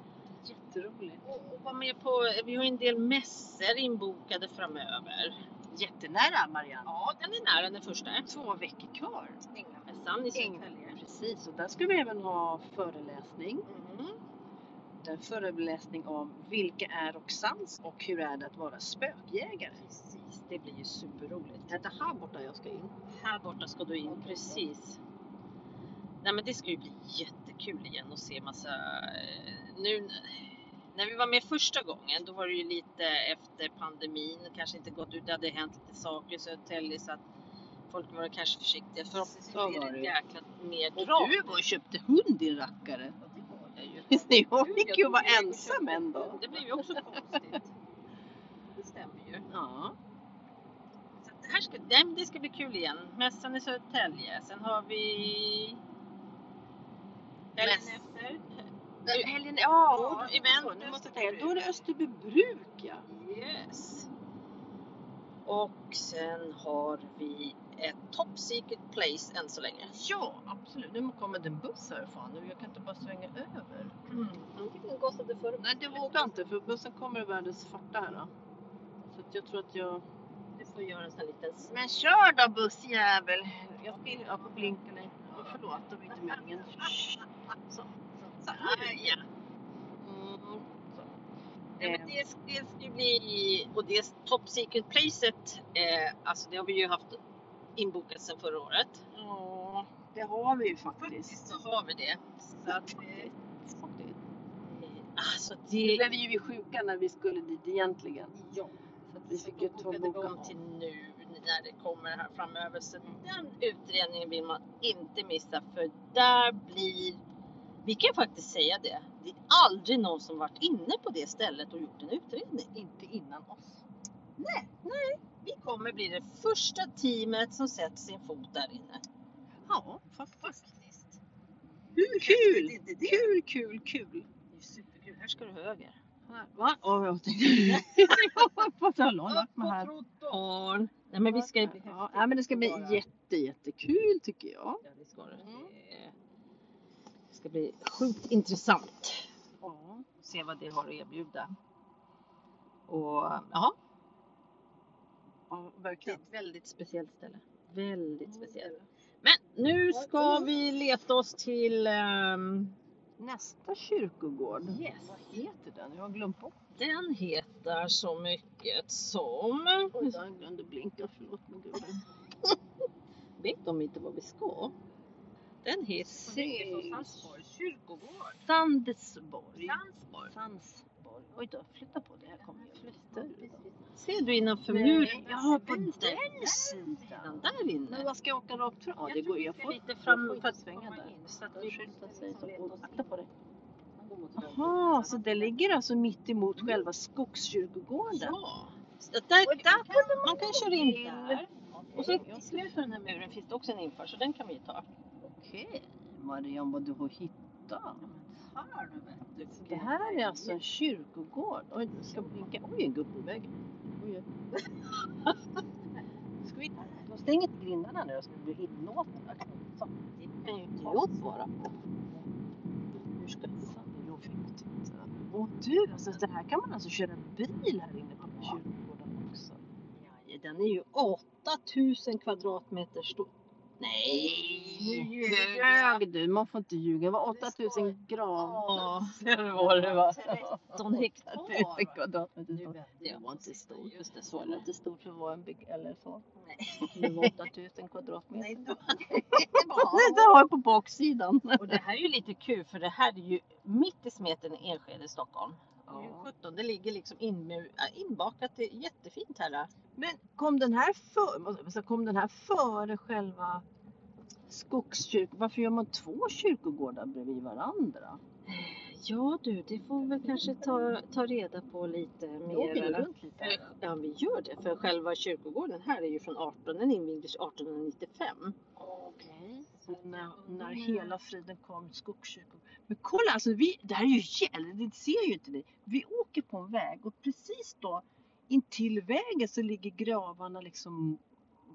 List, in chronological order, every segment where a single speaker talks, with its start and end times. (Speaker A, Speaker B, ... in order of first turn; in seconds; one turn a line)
Speaker A: 0.3-1.2
Speaker B: 1.2-5.4
Speaker A: 5.7-6.9
Speaker B: 6.8-8.3
Speaker A: 8.2-9.4
Speaker B: 9.5-11.0
Speaker A: 10.3-13.7
Speaker B: 13.7-14.2
Speaker A: 15.0-19.8
Speaker B: 19.8-25.0
Speaker A: 21.8-22.9
Speaker A: 24.0-24.6
Speaker B: 26.2-37.2
Speaker B: 37.9-41.6
Speaker A: 39.4-40.1
Speaker A: 41.0-43.1
Speaker B: 43.2-47.7
Speaker A: 44.1-47.0
Speaker B: 48.8-49.5
Speaker A: 49.5-49.9
Speaker B: 51.2-55.8
Speaker B: 57.5-59.3
Speaker A: 57.6-58.0
Speaker A: 59.1-63.1
Speaker B: 59.9-61.6
Speaker B: 63.1-64.1
Speaker B: 65.4-69.9
Speaker A: 69.9-74.0
Speaker B: 74.0-76.4
Speaker A: 75.6-78.3
Speaker A: 79.0-80.0
Speaker B: 80.5-81.7
Speaker A: 81.7-87.2
Speaker B: 83.9-84.8
Speaker B: 86.1-86.9
Speaker A: 88.2-89.2
Speaker B: 88.5-89.2
Speaker A: 90.0-91.1
Speaker A: 91.8-92.1
Speaker B: 91.8-97.2
Speaker B: 97.8-99.0
Speaker A: 99.1-101.4
Speaker B: 101.0-103.3
Speaker A: 102.6-104.2
Speaker B: 104.6-106.2
Speaker A: 105.7-108.3
Speaker B: 108.3-108.7
Speaker A: 109.1-110.6
Speaker B: 109.3-117.2
Speaker B: 117.8-122.7
Speaker A: 122.7-123.8
Speaker B: 124.4-124.7
Speaker A: 124.8-125.2
Speaker B: 125.4-129.0
Speaker A: 129.6-130.7
Speaker B: 130.5-131.2
Speaker B: 131.9-133.3
Speaker A: 132.1-134.3
Speaker B: 134.5-136.0
Speaker A: 136.3-139.9
Speaker B: 137.8-138.5
Speaker B: 139.3-143.0
Speaker A: 141.3-144.8
Speaker B: 144.8-146.1
Speaker A: 145.4-145.7
Speaker B: 147.3-149.3
Speaker A: 149.6-150.1
Speaker B: 150.2-151.5
Speaker B: 152.9-153.8
Speaker A: 155.5-156.2
Speaker B: 156.0-162.8
Speaker A: 158.2-158.8
Speaker A: 159.9-160.5
Speaker A: 163.2-166.5
Speaker B: 164.6-165.4
Speaker B: 166.8-170.2
Speaker A: 169.9-172.0
Speaker B: 173.4-174.7
Speaker B: 175.6-178.4
Speaker A: 176.0-177.3
Speaker A: 178.4-183.6
Speaker B: 179.6-180.3
Speaker B: 182.4-188.1
Speaker A: 184.7-193.3
Speaker B: 189.0-193.1
Speaker B: 194.0-195.5
Speaker A: 194.4-198.3
Speaker B: 196.6-196.8
Speaker B: 198.1-204.9
Speaker A: 199.3-202.7
Speaker A: 205.2-208.2
Speaker B: 208.3-210.6
Speaker A: 209.6-214.2
Speaker B: 212.1-212.4
Speaker B: 214.5-215.4
Speaker A: 216.4-220.2
Speaker B: 220.2-221.7
Speaker A: 220.8-221.2
Speaker A: 221.8-222.2
Speaker B: 223.0-223.7
Speaker A: 223.6-229.6
Speaker B: 230.0-233.3
Speaker A: 233.8-246.2
Speaker B: 233.9-236.0
Speaker B: 237.3-242.0
Speaker B: 242.5-244.6
Speaker B: 246.3-247.4
Speaker A: 246.8-251.8
Speaker B: 248.3-250.4
Speaker B: 251.6-259.7
Speaker A: 255.8-256.3
Speaker A: 259.9-263.6
Speaker A: 264.5-268.2
Speaker B: 268.4-278.6
Speaker A: 272.5-273.6
Speaker A: 278.8-291.2
Speaker B: 279.9-281.1